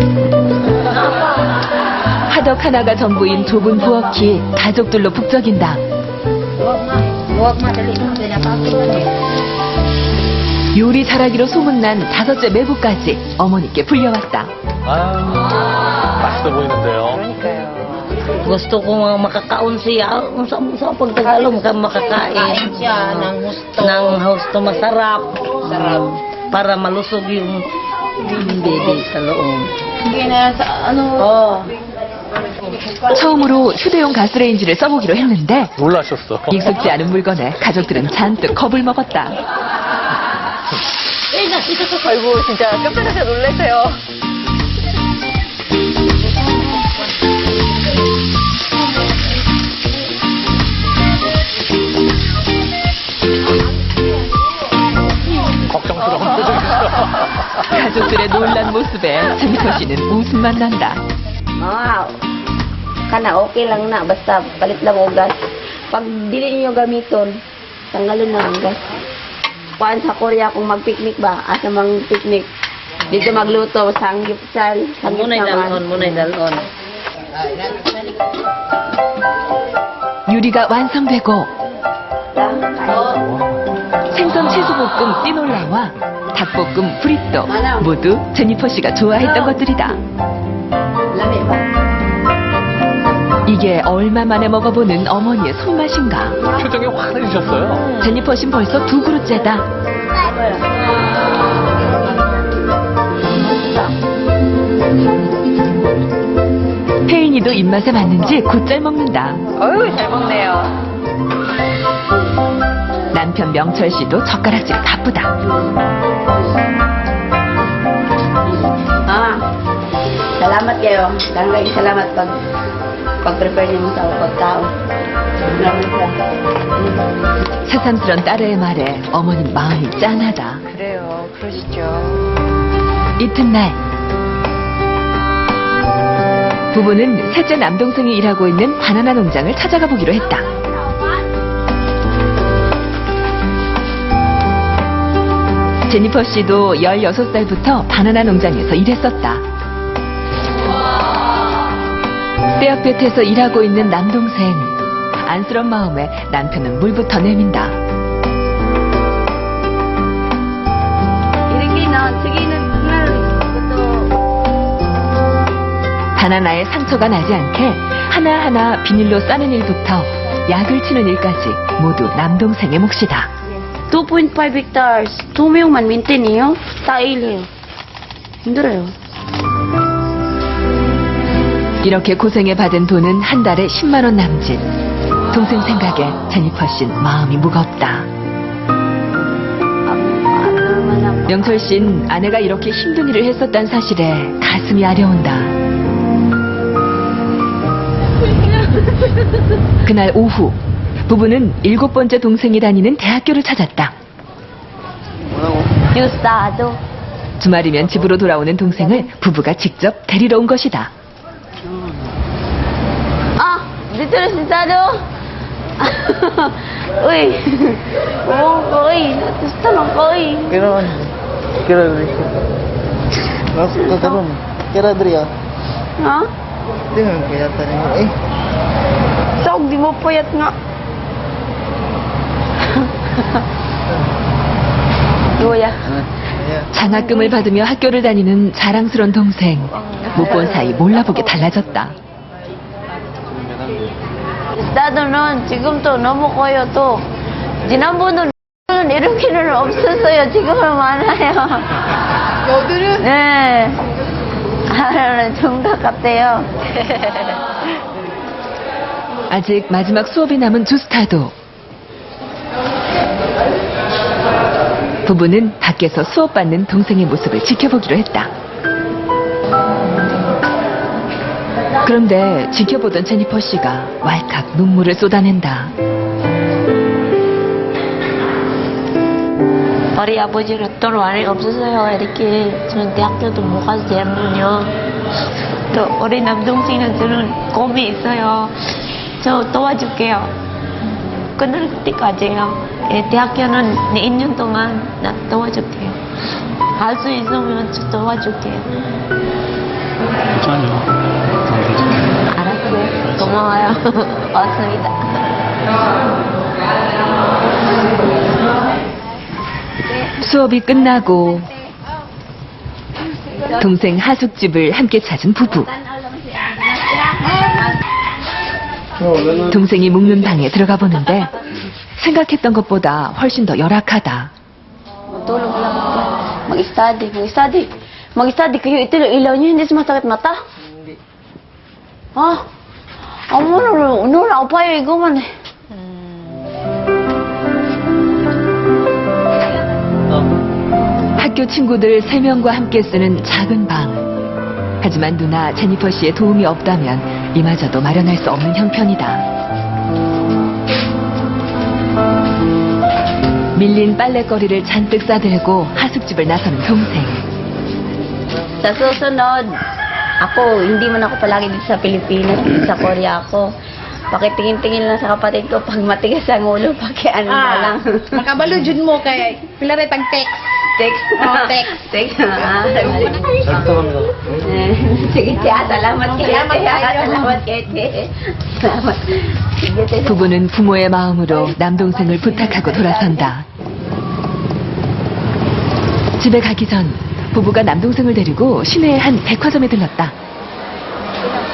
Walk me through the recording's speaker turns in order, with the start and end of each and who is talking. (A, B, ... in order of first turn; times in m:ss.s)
0:00.7-0:01.2 A
0:02.3-0:05.8 B
0:06.6-0:09.1 A
0:10.7-0:14.5 B
0:14.9-0:15.6 C
0:16.2-0:17.2 C
0:17.1-0:18.2 D
0:18.3-0:27.7 A
0:28.2-0:29.7 A
0:30.0-0:31.7 E
0:33.1-0:35.7 B
0:35.8-0:36.6 C
0:36.5-0:39.4 B
0:41.3-0:44.0 D
0:55.7-0:57.3 C
0:57.7-1:01.0 B
1:01.6-1:02.1 E
1:03.1-1:05.3 E
1:05.9-1:07.4 E
1:07.9-1:08.8 E
1:09.8-1:12.5 E
1:13.1-1:15.8 E
1:15.0-1:16.7 A
1:20.3-1:21.5 B
1:22.3-1:23.2 E
1:24.1-1:30.0 B
1:27.5-1:27.9 E
1:29.1-1:29.9 E
1:31.1-1:31.6 E
1:33.4-1:36.4 B
1:36.5-1:37.9 C
1:37.8-1:38.1 D
1:38.0-1:39.6 B
1:40.2-1:40.6 E
1:47.0-1:49.4 B
1:49.6-1:50.7 D
1:53.1-1:55.3 B
1:59.1-1:59.4 E
2:00.4-2:02.4 E
2:03.2-2:04.7 E
2:05.4-2:06.2 E
2:07.6-2:10.6 B
2:10.7-2:12.2 D
2:13.2-2:13.8 B
2:16.7-2:20.5 B
2:25.9-2:29.4 B
2:32.6-2:37.8 B
2:41.5-2:44.1 E
2:46.2-2:53.3 B
2:53.9-2:57.5 E
2:58.4-2:58.9 E
3:01.8-3:04.7 B
3:05.3-3:08.1 B
3:09.9-3:11.9 E
3:11.3-3:15.6 B
3:19.8-3:23.9 B
3:25.4-3:25.6 F
3:25.9-3:26.8 E
3:27.4-3:30.9 B
3:28.7-3:29.1 E
3:33.4-3:35.0 E
3:35.8-3:40.8 E
3:40.5-3:42.3 F
3:43.5-3:45.3 F
3:43.8-3:44.2 E
3:46.0-3:46.3 E
3:46.9-3:48.1 F
3:49.4-3:50.5 E
3:52.6-3:53.2 E
3:55.4-3:56.0 E
3:56.4-3:56.7 F
3:56.7-4:01.9 B
3:56.8-3:57.3 E
4:04.5-4:07.1 E
4:07.6-4:11.7 E
4:12.5-4:13.0 G
4:12.9-4:13.8 E
4:14.7-4:16.5 E
4:19.3-4:21.3 B
4:25.0-4:28.3 B
4:31.8-4:35.7 B
4:39.9-4:44.7 H
4:45.7-4:48.5 H
4:49.2-4:50.3 H
4:51.4-4:56.0 H
4:56.8-4:58.7 H
5:02.4-5:04.9 E
5:10.2-5:11.5 B
5:13.6-5:15.7 B
5:15.6-5:17.7 E
5:19.5-5:21.4 B
5:22.0-5:24.3 B
5:25.1-5:30.4 E
5:32.1-5:32.4 E
5:33.3-5:35.3 E
5:41.2-5:44.0 B
5:44.8-5:49.2 B
5:53.6-5:57.2 B
5:58.6-5:59.4 E
6:00.2-6:03.5 E
6:04.1-6:08.5 E
6:07.3-6:10.3 G
6:10.8-6:20.4 E
6:11.2-6:11.7 G
6:13.6-6:14.0 F
6:16.0-6:17.4 G
6:20.0-6:23.4 B
6:21.3-6:23.3 E
6:26.2-6:30.1 B